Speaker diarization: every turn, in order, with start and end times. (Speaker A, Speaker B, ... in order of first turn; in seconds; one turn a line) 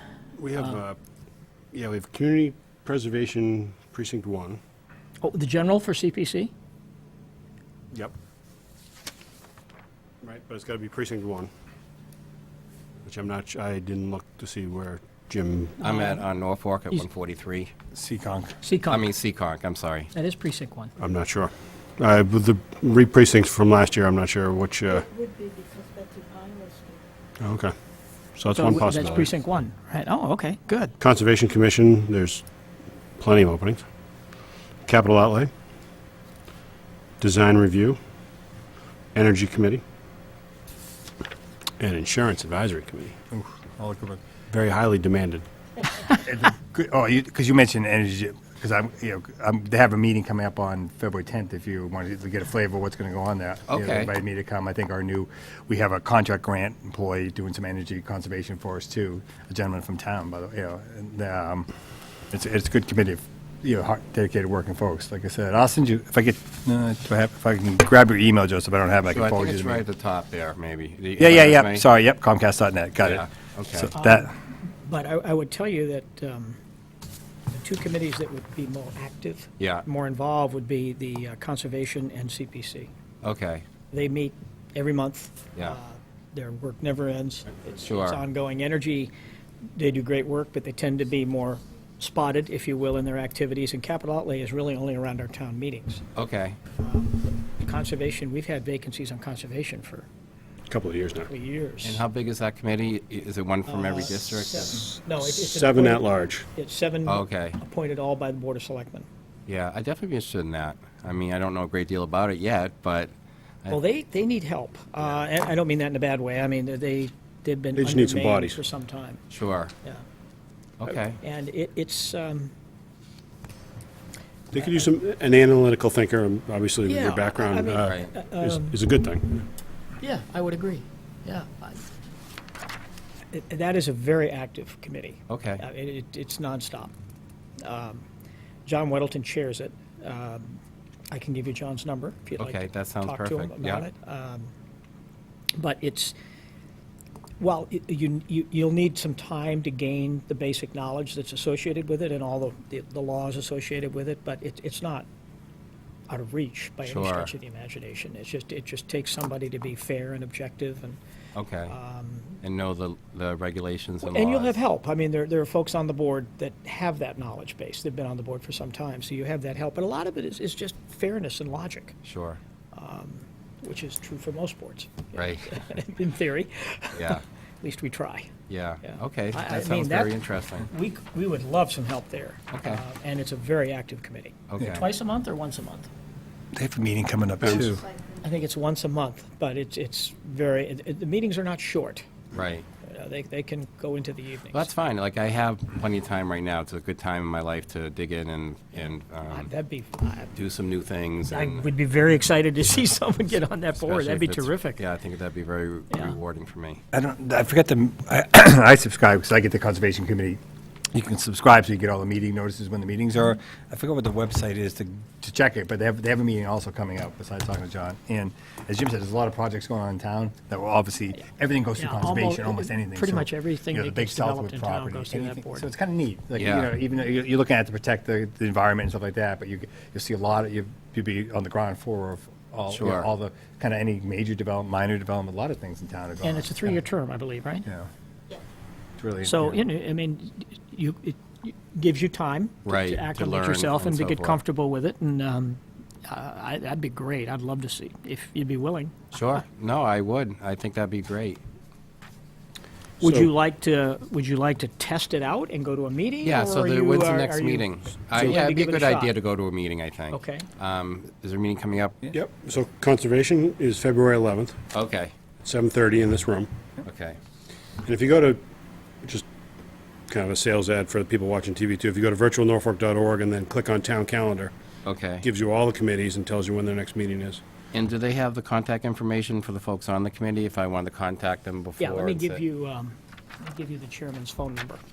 Speaker A: 0.4-1.0
Speaker A: 1.7-4.6
Speaker B: 5.2-6.5
Speaker A: 10.2-11.5
Speaker A: 13.0-15.8
Speaker B: 15.8-16.2
Speaker C: 15.8-17.7
Speaker D: 17.9-18.6
Speaker B: 18.6-19.1
Speaker C: 18.9-20.1
Speaker B: 20.1-20.9
Speaker A: 21.0-25.1
Speaker E: 25.0-27.0
Speaker A: 27.4-27.8
Speaker A: 28.3-29.3
Speaker B: 28.5-30.9
Speaker A: 31.0-32.5
Speaker A: 33.2-33.9
Speaker A: 34.8-35.5
Speaker A: 37.2-38.0
Speaker A: 39.1-39.8
Speaker A: 41.8-43.2
Speaker D: 43.3-44.2
Speaker A: 44.5-45.5
Speaker D: 46.2-61.7
Speaker C: 53.7-54.1
Speaker D: 62.3-69.8
Speaker C: 69.1-71.8
Speaker D: 71.2-74.3
Speaker C: 73.0-73.9
Speaker B: 73.9-76.6
Speaker B: 77.5-82.9
Speaker C: 79.6-79.8
Speaker C: 83.2-83.6
Speaker B: 83.9-89.1
Speaker C: 87.8-88.2
Speaker B: 89.7-96.0
Speaker C: 96.1-96.6
Speaker B: 96.8-100.1
Speaker A: 100.7-101.3
Speaker B: 101.3-102.0
Speaker C: 101.8-104.9
Speaker B: 103.7-109.0
Speaker A: 105.2-106.5
Speaker C: 107.0-107.6
Speaker C: 109.5-113.8
Speaker B: 113.7-119.2
Speaker A: 117.8-118.6
Speaker C: 119.3-119.7
Speaker C: 120.8-121.2
Speaker B: 121.2-122.5
Speaker A: 124.5-129.5
Speaker B: 124.6-124.9
Speaker B: 126.8-128.8
Speaker C: 127.8-128.1
Speaker B: 130.0-131.8
Speaker B: 133.3-136.9
Speaker C: 135.3-135.6
Speaker B: 137.6-138.0
Speaker B: 138.6-144.5
Speaker C: 142.4-143.9
Speaker B: 145.6-146.2
Speaker B: 147.4-155.1
Speaker B: 156.1-161.0
Speaker C: 156.8-157.3
Speaker C: 161.3-161.7
Speaker B: 161.7-162.4
Speaker C: 162.4-164.6
Speaker B: 164.0-172.0
Speaker C: 172.0-172.4
Speaker B: 172.7-178.3
Speaker C: 175.1-175.6
Speaker C: 176.9-177.2
Speaker C: 178.5-180.7
Speaker B: 178.9-180.1
Speaker B: 180.6-185.9
Speaker C: 182.5-182.8
Speaker C: 184.5-184.8
Speaker D: 186.5-187.8
Speaker A: 187.4-187.7
Speaker B: 188.2-192.1
Speaker C: 192.3-192.7
Speaker B: 192.8-194.7
Speaker C: 194.5-199.5
Speaker B: 198.8-200.3
Speaker C: 200.3-201.7
Speaker B: 201.3-204.8
Speaker C: 203.8-206.8
Speaker B: 205.9-206.2
Speaker D: 206.9-210.4
Speaker D: 210.9-236.8
Speaker B: 221.8-225.7
Speaker C: 226.3-226.7
Speaker C: 232.7-233.1
Speaker B: 236.2-237.7
Speaker D: 239.0-239.6
Speaker B: 239.2-249.1
Speaker C: 242.6-244.4
Speaker C: 249.1-251.4
Speaker B: 253.0-259.1
Speaker A: 253.0-253.3
Speaker C: 256.2-262.1
Speaker B: 260.1-260.5
Speaker A: 262.1-264.6
Speaker C: 264.7-265.1
Speaker A: 265.4-266.5
Speaker C: 266.8-267.2
Speaker A: 267.8-268.4
Speaker A: 270.1-274.5
Speaker C: 274.8-275.2
Speaker A: 275.2-277.4
Speaker C: 277.7-282.4
Speaker B: 281.8-284.8